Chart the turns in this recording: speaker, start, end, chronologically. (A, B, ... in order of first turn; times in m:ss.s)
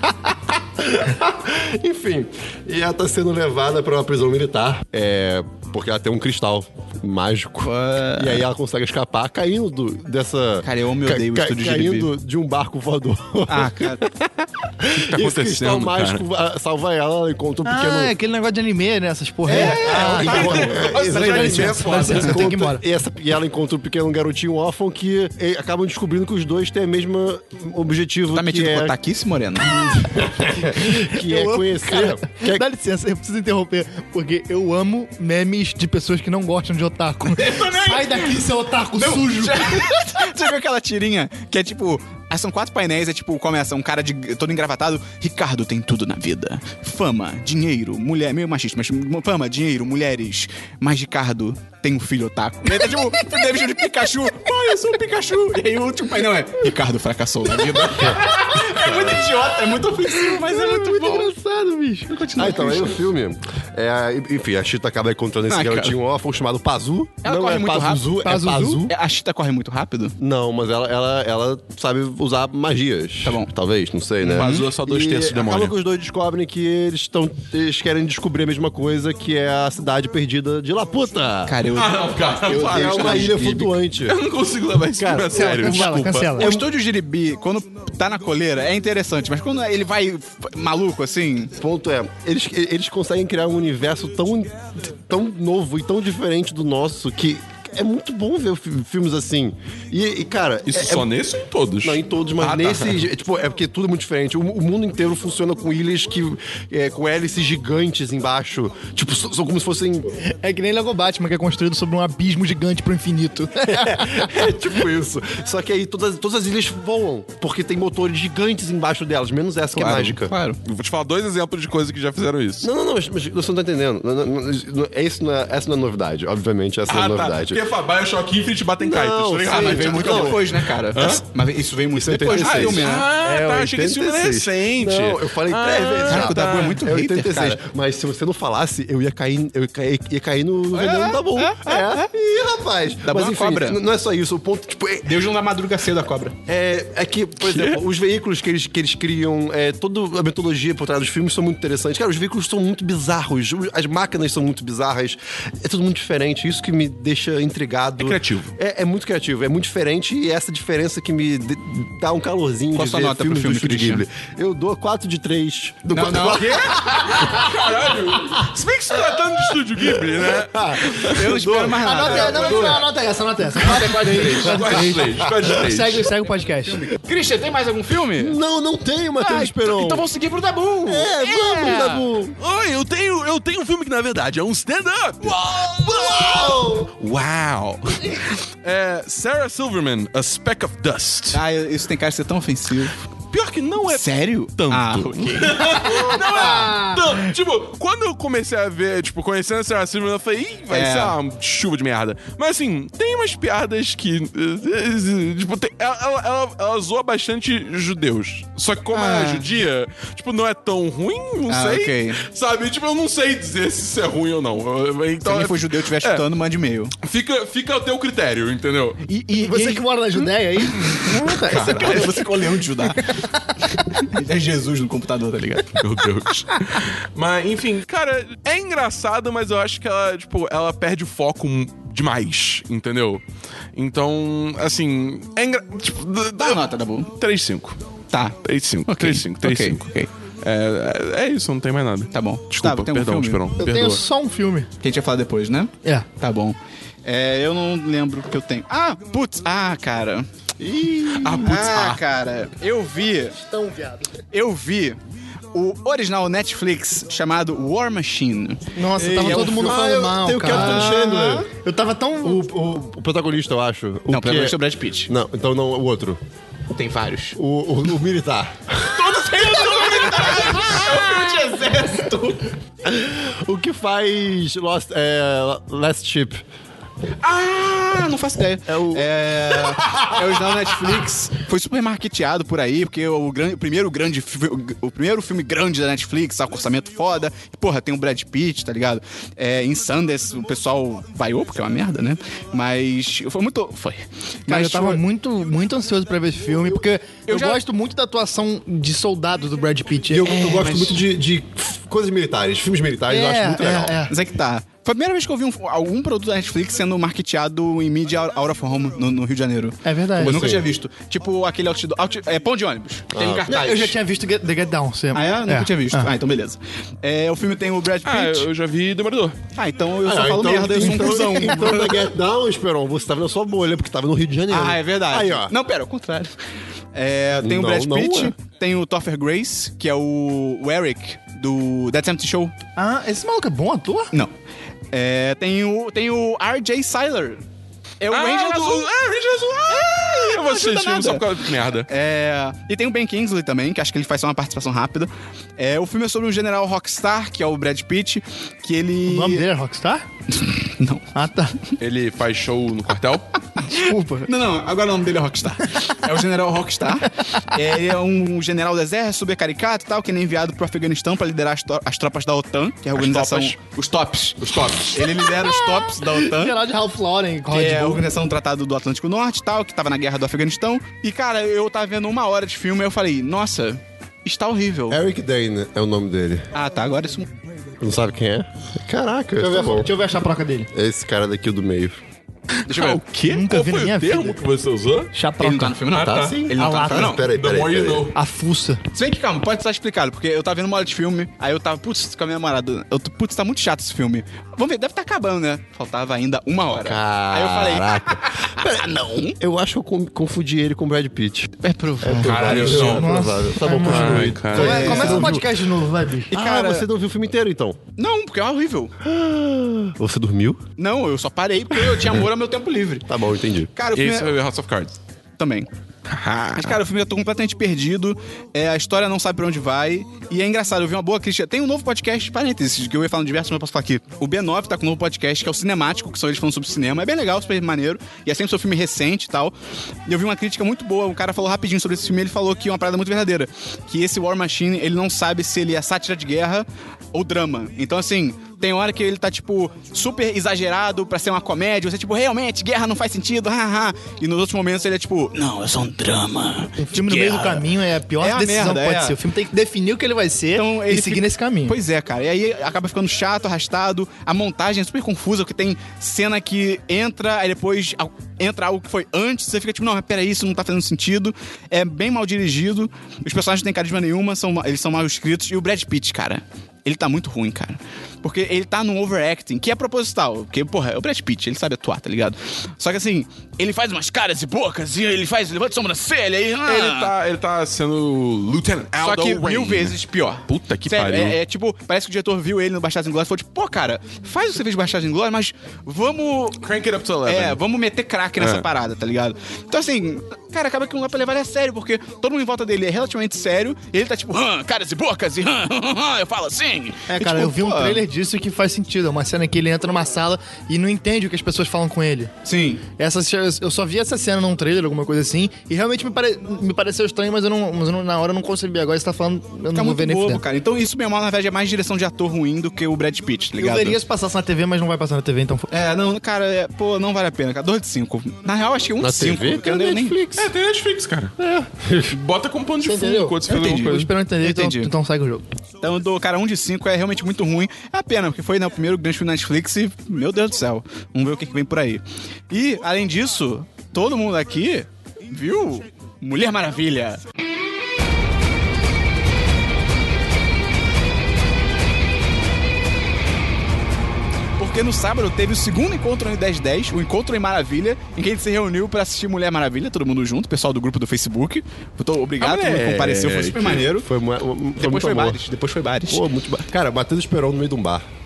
0:00.3-0:18.1 A
0:07.6-0:08.4 B
0:10.6-0:12.1 B
0:13.5-0:14.0 B
0:15.0-0:16.2 C
0:17.6-0:22.8 D
0:19.5-0:22.4 B
0:19.5-0:28.9 A
0:19.9-0:22.5 C
0:28.3-0:29.8 B
0:29.6-0:32.6 A
0:30.5-0:40.0 D
0:37.3-0:38.4 B
0:38.9-1:01.3 B
0:52.8-0:53.4 D
1:00.1-1:02.3 D
1:02.1-1:03.0 B
1:02.4-1:08.9 A
1:05.5-1:05.9 B
1:07.2-1:08.1 B
1:08.2-1:08.9 D
1:08.9-1:10.1 B
1:10.2-1:21.6 A
1:13.2-1:13.5 B
1:14.2-1:14.7 B
1:14.3-1:15.7 C
1:21.5-1:23.7 B
1:21.7-1:26.5 C
1:22.6-1:24.2 A
1:25.0-1:25.8 A
1:25.3-1:26.6 D
1:26.4-1:31.5 B
1:31.6-1:41.1 A
1:40.7-1:43.1 C
1:41.8-1:50.2 A
1:50.2-1:54.3 D
1:53.6-2:00.3 A
1:59.7-2:00.6 B
2:00.6-2:02.7 C
2:02.6-2:07.6 A
2:06.9-2:11.2 C
2:08.8-2:10.5 A
2:09.5-2:13.1 B
2:12.0-2:25.2 A
2:12.2-2:16.8 C
2:16.1-2:17.6 B
2:20.7-2:22.1 B
2:23.0-2:23.8 B
2:25.0-2:26.4 B
2:26.5-2:47.2 A
2:27.4-2:27.8 C
2:38.0-2:38.5 C
2:42.7-2:44.0 B
2:45.9-2:46.7 B
2:46.3-2:51.2 C
2:49.8-2:52.8 A
2:51.0-2:52.8 B
2:51.8-2:56.8 D
2:52.2-2:52.7 C
2:53.6-2:54.8 B
2:53.6-2:56.1 C
2:56.8-2:58.4 B
2:58.2-3:00.0 A
2:59.2-3:02.0 B
3:00.8-3:02.4 A
3:02.4-3:11.4 C
3:05.5-3:06.9 A
3:11.3-3:13.0 B
3:13.3-3:36.2 C
3:13.8-3:16.1 B
3:16.4-3:17.0 D
3:20.7-3:21.2 B
3:28.9-3:29.5 B
3:31.5-3:32.2 B
3:35.2-3:37.0 B
3:37.0-3:39.0 C
3:39.1-3:39.8 B
3:39.4-3:41.9 D
3:40.8-3:42.2 C
3:41.0-3:43.2 B
3:43.9-3:45.8 B
3:45.8-3:53.2 C
3:53.7-3:56.6 C
3:56.4-3:57.1 B
3:57.2-3:57.8 C
3:58.1-4:00.1 B
3:58.4-3:59.9 C
4:00.4-4:04.0 C
4:02.1-4:03.4 B
4:03.6-4:04.7 D
4:04.8-4:10.3 B
4:10.6-4:11.6 A
4:11.2-4:12.0 C
4:11.4-4:13.4 B
4:13.4-4:14.1 D
4:14.3-4:15.0 B
4:15.5-4:19.8 B
4:18.7-4:22.4 D
4:19.2-4:21.5 A
4:20.4-4:21.0 B
4:22.2-4:24.6 A
4:24.1-4:25.1 B
4:25.1-4:26.2 A
4:26.7-4:27.4 B
4:27.4-4:29.2 A
4:28.8-4:32.5 B
4:29.2-4:31.0 C
4:32.8-4:36.4 A
4:37.2-4:55.0 B
4:38.7-4:39.1 A
4:54.5-5:00.6 D
4:57.3-4:57.6 B
5:00.1-5:04.0 A
5:00.3-5:01.0 B
5:03.1-5:04.1 D
5:04.1-5:14.0 B
5:09.8-5:10.4 D
5:10.2-5:10.6 A
5:13.1-5:13.9 A
5:13.5-5:16.1 D
5:15.1-5:18.5 B
5:18.0-5:19.4 C
5:19.5-5:22.0 B
5:20.0-5:25.5 A
5:24.5-5:26.4 B
5:26.9-5:32.5 B
5:27.3-5:28.3 A
5:32.8-5:34.1 D
5:34.9-5:37.4 B
5:38.0-5:38.9 B
5:38.1-5:41.9 C
5:39.7-5:49.4 B
5:49.0-5:50.0 D
5:50.4-5:51.0 B
5:51.1-5:51.6 D
5:51.8-5:53.3 C
5:53.6-6:06.6 B
5:53.6-5:54.3 D
6:02.9-6:03.6 C
6:04.4-6:04.9 C
6:05.0-6:08.0 D
6:07.5-6:15.0 B
6:14.9-6:16.5 A
6:16.5-6:17.3 B
6:17.8-6:19.9 A
6:19.4-6:20.7 D
6:20.7-6:22.0 A
6:22.6-6:25.1 C
6:22.7-6:23.0 B
6:23.3-6:24.4 D
6:25.1-6:25.8 D
6:25.4-6:27.3 B
6:25.9-6:26.4 C
6:25.9-6:28.1 A
6:26.6-6:27.1 D
6:27.2-6:28.1 C
6:28.1-6:28.8 D
6:28.9-6:39.4 B
6:36.7-6:41.5 A
6:41.6-6:43.0 B
6:42.0-6:46.3 D
6:42.1-6:45.6 A
6:42.2-6:43.3 C
6:43.8-6:45.2 C
6:44.6-6:45.3 B
6:46.3-6:46.9 B
6:46.3-6:47.8 A
6:48.0-6:48.9 B
6:49.0-6:50.6 A
6:50.8-6:53.1 B
6:51.8-6:52.2 A
6:53.1-6:53.7 A
6:53.7-6:54.3 B
6:53.9-6:55.0 C
6:55.4-6:55.7 B
6:56.1-6:56.8 C
6:56.6-7:09.5 B
7:10.1-7:27.7 B
7:26.8-7:31.8 D
7:28.2-7:29.2 B
7:30.5-7:57.1 B
7:56.6-8:01.4 C
7:59.0-8:06.7 B
8:06.6-8:07.6 C
8:07.2-8:18.0 B
8:08.4-8:08.6 C
8:17.1-8:22.3 D
8:22.4-8:22.8 B
8:23.0-8:30.4 D
8:29.7-8:34.0 B
8:33.6-8:35.7 D
8:35.7-8:40.2 B
8:39.0-8:40.5 A
8:40.4-8:41.3 C
8:41.4-8:42.2 A
8:42.1-8:44.1 C
8:42.8-8:45.4 D
8:43.5-8:44.9 B
8:45.8-8:57.2 B
9:04.6-9:14.1 B
9:12.4-9:13.9 C
9:13.9-9:15.4 A
9:14.8-9:16.2 B
9:16.1-9:18.0 A